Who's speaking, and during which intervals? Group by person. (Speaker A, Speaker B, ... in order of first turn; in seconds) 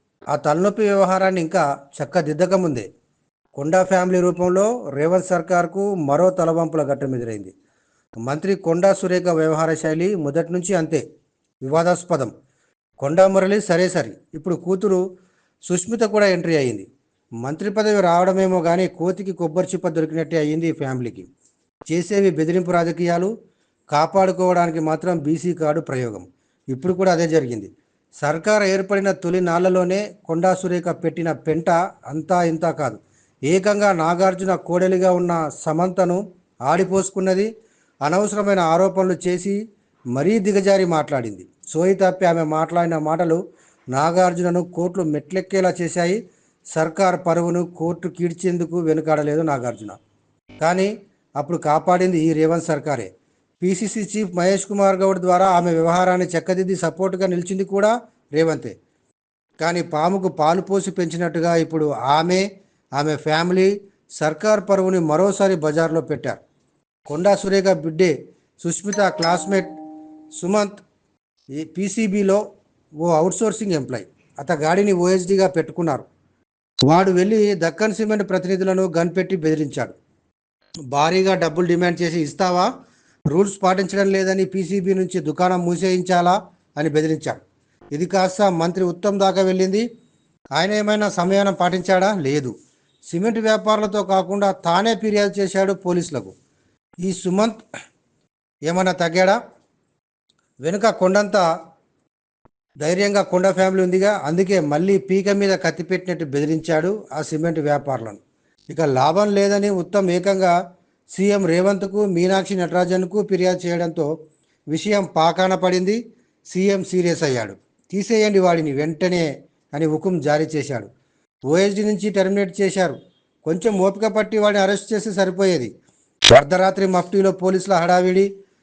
Speaker A: 0.3-2.9, 3.5-7.5, 8.2-11.0, 11.6-12.3, 13.0-15.0, 15.7-16.9, 17.4-21.3, 21.9-23.3, 23.9-27.7, 28.2-37.5, 38.0-39.6, 40.1-43.4, 43.9-46.2, 46.7-50.0, 50.6-53.1, 53.6-58.7, 59.6-62.4, 63.0-66.4, 67.1-69.7, 70.4-70.8, 71.6-72.4, 73.0-76.0, 76.8-79.9, 80.9-82.7, 83.3-87.4, 87.9-89.8, 90.5-92.5, 93.1-96.3, 97.0-97.6, 98.7-99.4, 100.6-101.4, 102.8-110.5, 111.1-114.1, 114.7-116.0, 116.5-120.9, 121.5-125.7, 126.3-128.3